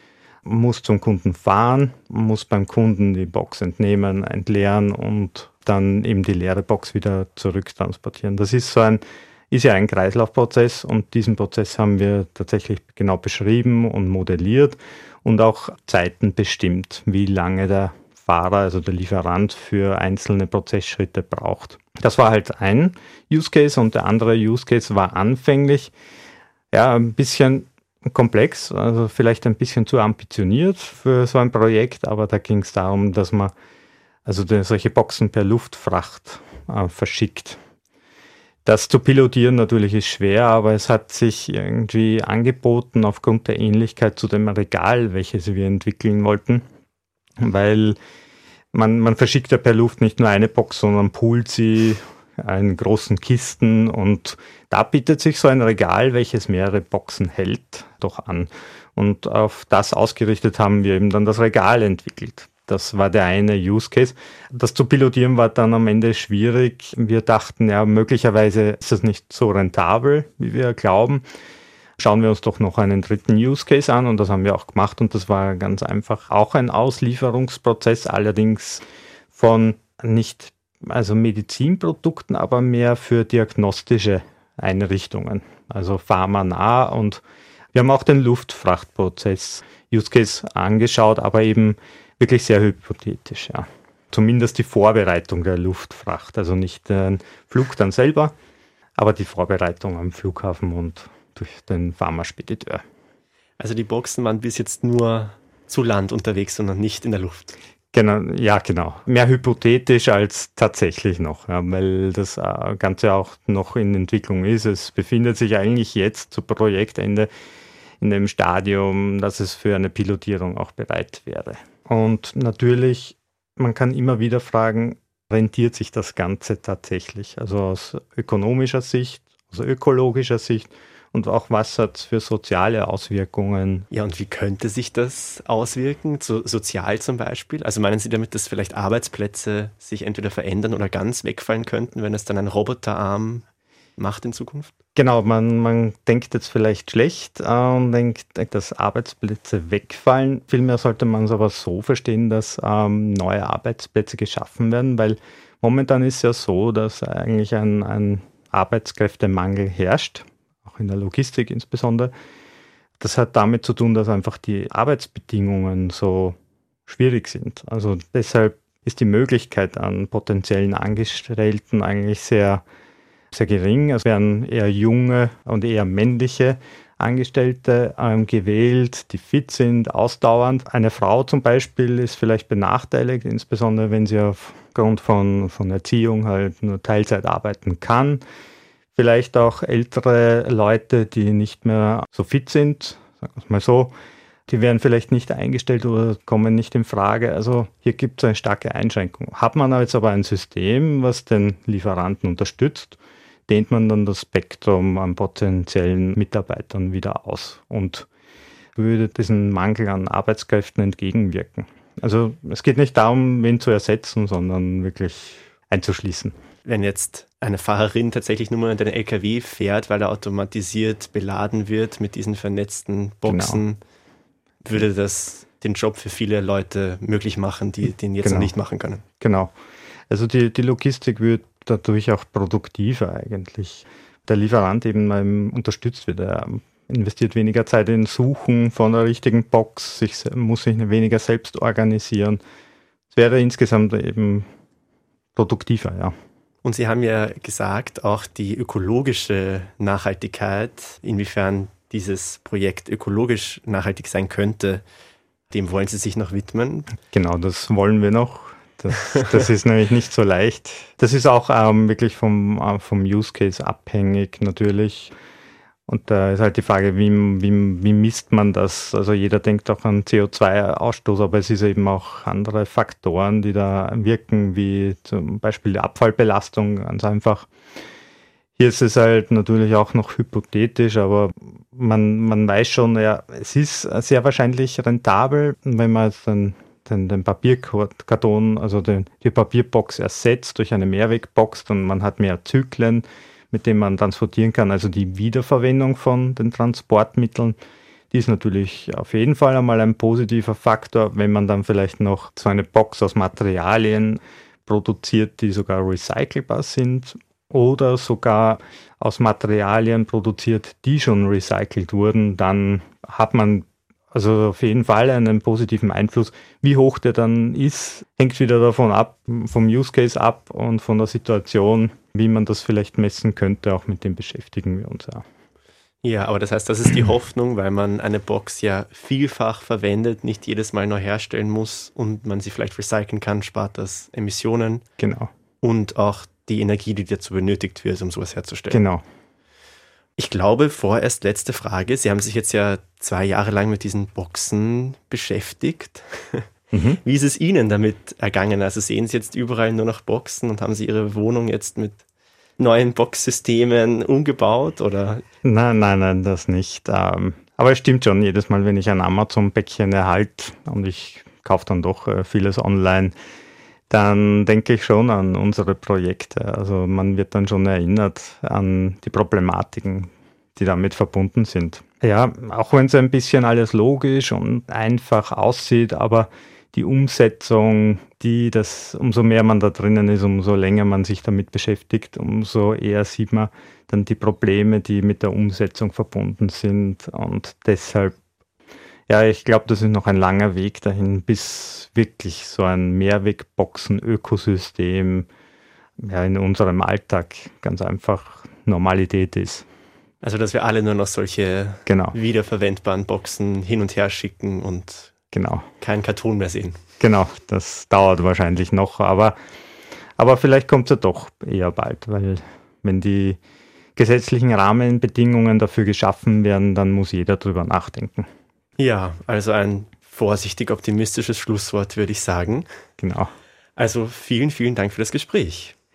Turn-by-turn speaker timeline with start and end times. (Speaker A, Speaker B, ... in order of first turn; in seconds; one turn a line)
Speaker A: 0.5-25.9
Speaker A: 26.7-33.5
Speaker A: 34.2-37.6
Speaker A: 38.6-46.6
Speaker A: 47.4-48.0
Speaker A: 48.7-71.2
Speaker A: 72.0-87.2
Speaker A: 87.7-98.3
Speaker A: 99.0-102.8
Speaker B: 103.6-107.5
Speaker A: 107.9-117.3
Speaker A: 118.0-133.9
Speaker B: 133.9-143.4
Speaker B: 144.0-144.7
Speaker A: 144.9-162.1
Speaker A: 163.0-166.3
Speaker A: 166.9-172.6
Speaker A: 173.3-188.2
Speaker A: 188.9-193.9
Speaker A: 194.5-208.1
Speaker A: 208.8-216.3
Speaker B: 216.6-223.8
Speaker A: 223.2-223.6
Speaker B: 224.6-229.0
Speaker A: 228.2-228.5
Speaker A: 229.2-229.5
Speaker A: 230.1-242.4
Speaker A: 243.1-244.4
Speaker A: 245.3-246.1
Speaker B: 246.6-254.8
Speaker B: 255.5-256.9
Speaker A: 257.1-265.1
Speaker A: 265.9-277.5
Speaker A: 278.6-297.5
Speaker A: 298.1-325.2
Speaker B: 326.0-334.8
Speaker A: 335.0-335.3
Speaker B: 335.6-338.8
Speaker A: 338.7-339.0
Speaker B: 340.2-346.5
Speaker A: 346.7-347.0
Speaker B: 347.0-352.0
Speaker B: 352.6-355.2
Speaker A: 355.4-363.1
Speaker A: 363.9-388.1
Speaker A: 389.1-395.3
Speaker A: 396.0-399.6
Speaker B: 400.2-405.1
Speaker A: 401.9-402.2
Speaker A: 405.3-405.6
Speaker B: 405.8-406.8
Speaker A: 407.0-409.4
Speaker A: 410.2-413.4
Speaker A: 413.9-418.3
Speaker B: 418.8-422.7
Speaker A: 423.0-423.3
Speaker B: 423.8-425.7